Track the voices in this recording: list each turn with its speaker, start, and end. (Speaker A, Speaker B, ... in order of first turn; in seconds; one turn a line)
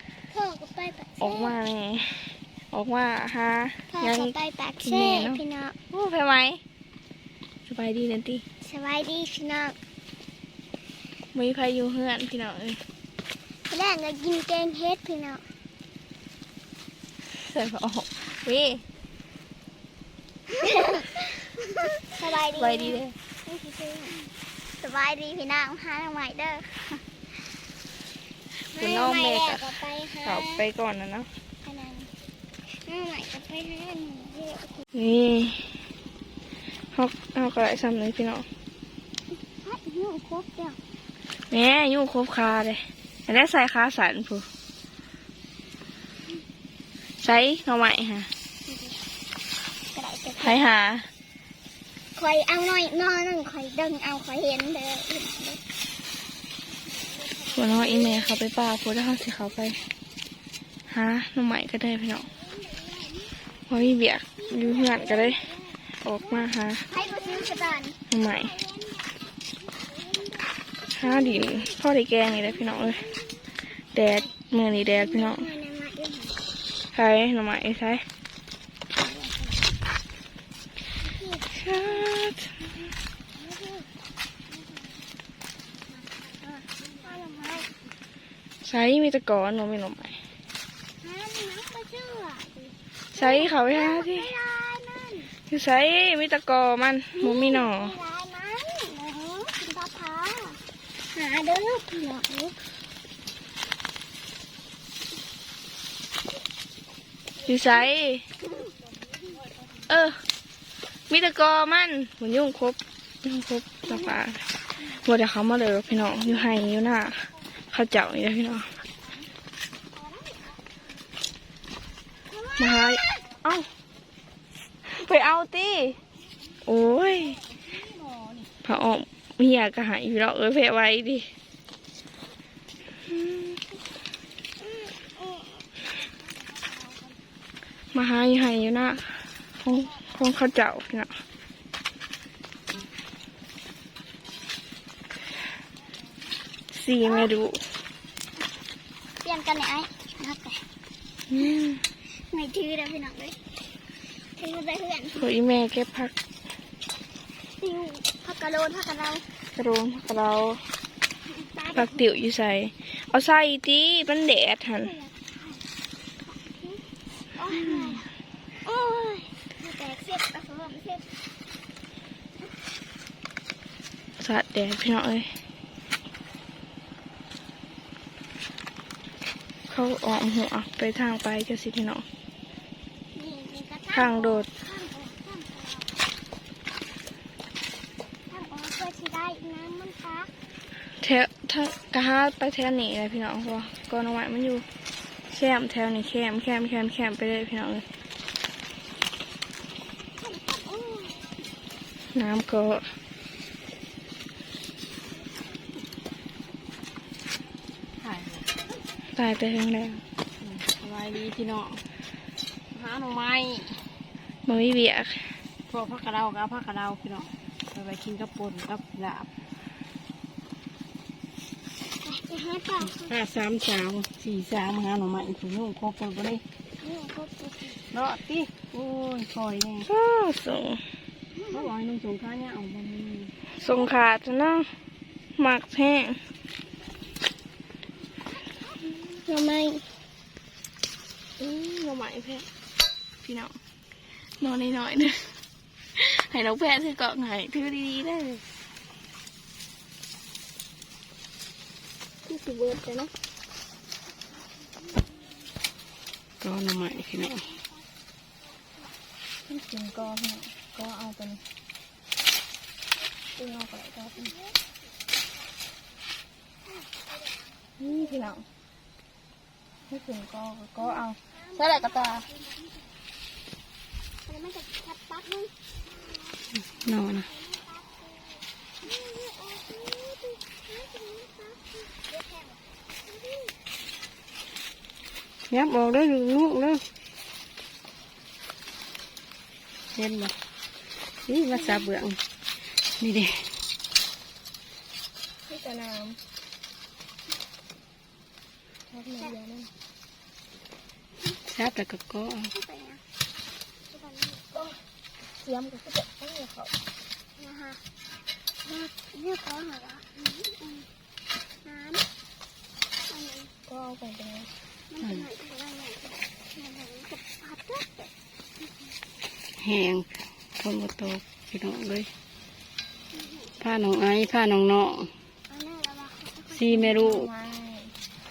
Speaker A: 0.3-1.6
Speaker B: 1.2-6.6
Speaker A: 3.9-5.8
Speaker B: 7.7-8.4
Speaker A: 8.6-9.8
Speaker B: 11.3-12.8
Speaker A: 13.7-15.4
Speaker B: 17.2-18.8
Speaker A: 20.6-21.3
Speaker A: 22.0-26.9
Speaker B: 22.4-23.1
Speaker B: 28.6-31.3
Speaker A: 28.7-30.6
Speaker A: 31.6-32.1
Speaker A: 32.6-34.8
Speaker B: 34.9-35.8
Speaker B: 36.9-38.5
Speaker A: 39.5-40.8
Speaker B: 41.5-44.5
Speaker B: 47.2-48.3
Speaker A: 48.7-49.0
Speaker A: 49.9-50.6
Speaker B: 50.4-51.1
Speaker A: 52.1-55.6
Speaker A: 57.2-58.2
Speaker B: 57.5-59.8
Speaker B: 60.9-62.3
Speaker A: 62.5-63.4
Speaker B: 63.7-66.9
Speaker A: 64.5-65.8
Speaker A: 66.9-71.7
Speaker B: 68.1-68.6
Speaker B: 70.9-73.1
Speaker A: 72.4-73.2
Speaker B: 73.9-75.5
Speaker A: 74.8-76.4
Speaker B: 76.9-78.0
Speaker A: 81.0-81.7
Speaker B: 81.5-82.7
Speaker A: 83.3-83.9
Speaker A: 84.5-85.0
Speaker A: 86.4-87.7
Speaker B: 88.6-90.2
Speaker A: 91.0-95.3
Speaker B: 93.1-94.3
Speaker B: 95.5-98.0
Speaker A: 97.1-100.6
Speaker A: 101.1-102.6
Speaker B: 107.4-108.2
Speaker B: 109.9-110.2
Speaker B: 111.1-118.8
Speaker A: 113.9-114.1
Speaker A: 119.9-120.6
Speaker A: 122.3-123.3
Speaker B: 122.6-123.7
Speaker B: 124.8-126.0
Speaker B: 126.6-127.4
Speaker B: 128.6-131.3
Speaker B: 133.1-133.6
Speaker A: 134.6-135.7
Speaker B: 137.9-141.1
Speaker B: 146.7-147.7
Speaker A: 147.0-147.3
Speaker A: 149.2-150.6
Speaker B: 151.3-151.8
Speaker A: 152.1-153.3
Speaker A: 154.3-155.2
Speaker B: 155.1-156.1
Speaker A: 157.6-159.2
Speaker B: 159.5-160.6
Speaker A: 161.4-162.1
Speaker B: 161.7-165.0
Speaker A: 164.8-165.6
Speaker A: 166.2-166.8
Speaker A: 167.3-171.1
Speaker B: 167.5-168.0
Speaker B: 174.2-175.3
Speaker B: 179.7-182.0
Speaker A: 183.1-185.9
Speaker B: 183.9-184.5
Speaker A: 188.3-190.3
Speaker B: 191.0-194.6
Speaker B: 195.3-197.8
Speaker A: 200.2-201.2
Speaker B: 202.1-202.9
Speaker C: 208.0-208.5
Speaker B: 209.1-210.0
Speaker C: 210.4-211.8
Speaker C: 212.7-213.9
Speaker B: 214.4-215.4
Speaker C: 215.7-219.3
Speaker A: 222.0-223.1
Speaker C: 222.9-226.4
Speaker A: 226.8-227.8
Speaker C: 227.9-229.9
Speaker B: 229.9-230.8
Speaker A: 231.4-231.6
Speaker C: 231.5-233.3
Speaker B: 233.5-234.7
Speaker B: 235.3-236.2
Speaker A: 239.1-239.8
Speaker B: 241.4-242.5
Speaker B: 243.2-243.6
Speaker B: 244.2-245.3
Speaker B: 245.9-248.4
Speaker B: 252.3-252.7
Speaker C: 256.4-257.4
Speaker B: 259.4-261.4
Speaker B: 263.4-264.3
Speaker A: 264.2-264.6
Speaker A: 266.7-267.5
Speaker B: 267.8-268.4
Speaker B: 269.9-272.3
Speaker A: 270.8-272.8
Speaker A: 274.2-276.4
Speaker C: 276.6-277.3
Speaker A: 277.2-283.5
Speaker C: 285.5-286.8
Speaker C: 289.9-290.3
Speaker C: 291.3-292.2
Speaker C: 293.0-293.5
Speaker B: 295.5-296.2
Speaker B: 298.9-299.7
Speaker C: 301.4-302.5
Speaker A: 302.5-303.0
Speaker A: 303.9-304.4
Speaker B: 305.4-306.7
Speaker A: 307.4-307.8
Speaker A: 308.6-310.9
Speaker A: 311.6-312.0
Speaker A: 313.0-313.5
Speaker B: 313.7-314.5
Speaker A: 314.9-318.1
Speaker C: 319.6-322.1
Speaker A: 323.1-323.5
Speaker C: 323.6-325.1
Speaker A: 325.5-326.9
Speaker C: 326.5-327.3
Speaker B: 326.7-327.9